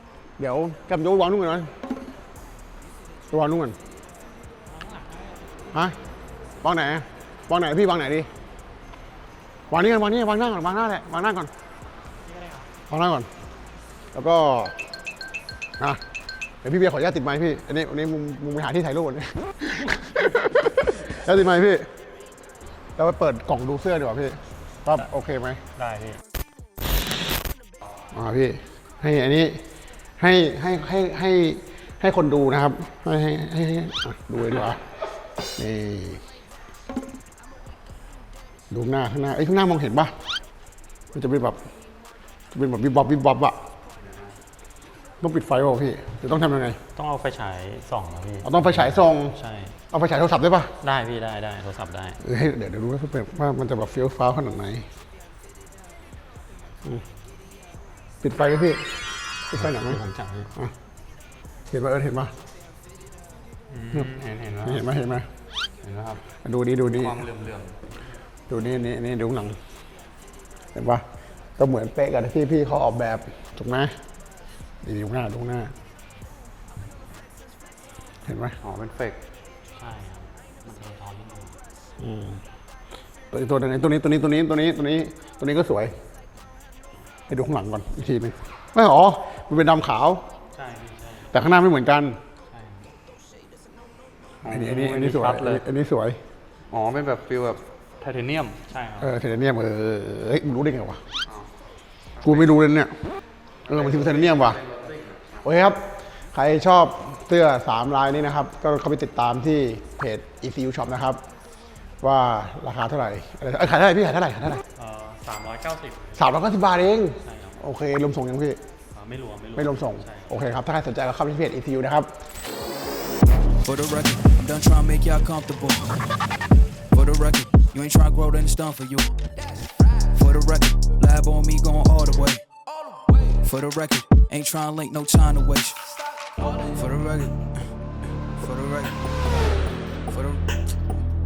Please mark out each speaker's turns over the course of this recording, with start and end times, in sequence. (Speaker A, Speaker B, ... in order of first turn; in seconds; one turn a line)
Speaker A: 0.4-1.7
Speaker A: 3.3-3.8
Speaker B: 4.7-5.4
Speaker A: 6.6-8.3
Speaker A: 9.7-11.5
Speaker B: 12.3-12.7
Speaker A: 12.9-13.3
Speaker A: 14.1-14.8
Speaker A: 16.6-21.9
Speaker A: 23.0-25.6
Speaker B: 25.8-26.2
Speaker A: 28.1-29.6
Speaker A: 30.2-34.8
Speaker A: 35.6-36.2
Speaker A: 38.7-40.1
Speaker A: 41.1-41.6
Speaker A: 42.5-43.6
Speaker A: 45.2-46.8
Speaker B: 46.9-49.8
Speaker A: 48.5-49.4
Speaker A: 49.9-50.7
Speaker B: 50.8-52.2
Speaker A: 52.2-54.9
Speaker A: 58.2-58.9
Speaker A: 59.5-60.0
Speaker B: 59.5-60.5
Speaker A: 61.7-62.3
Speaker A: 63.9-65.3
Speaker B: 64.0-64.5
Speaker A: 66.4-67.3
Speaker A: 68.5-69.6
Speaker A: 70.8-71.0
Speaker A: 71.6-73.9
Speaker A: 74.8-75.7
Speaker A: 78.3-78.5
Speaker B: 79.8-81.6
Speaker A: 82.0-82.4
Speaker A: 83.3-85.9
Speaker A: 87.3-90.2
Speaker B: 90.5-91.3
Speaker A: 91.3-92.2
Speaker B: 92.5-92.9
Speaker B: 94.5-95.5
Speaker A: 94.5-96.2
Speaker C: 96.7-97.4
Speaker B: 98.5-99.2
Speaker A: 99.0-101.0
Speaker A: 102.2-102.9
Speaker A: 103.7-104.6
Speaker C: 103.7-105.1
Speaker A: 105.4-105.8
Speaker A: 106.3-111.2
Speaker A: 112.0-114.6
Speaker B: 114.8-116.5
Speaker A: 116.2-118.6
Speaker B: 117.2-117.6
Speaker B: 118.9-120.4
Speaker A: 119.6-122.1
Speaker D: 123.6-126.1
Speaker D: 126.9-129.2
Speaker D: 129.9-132.4
Speaker D: 133.2-137.7
Speaker D: 138.4-139.1
Speaker D: 140.1-140.4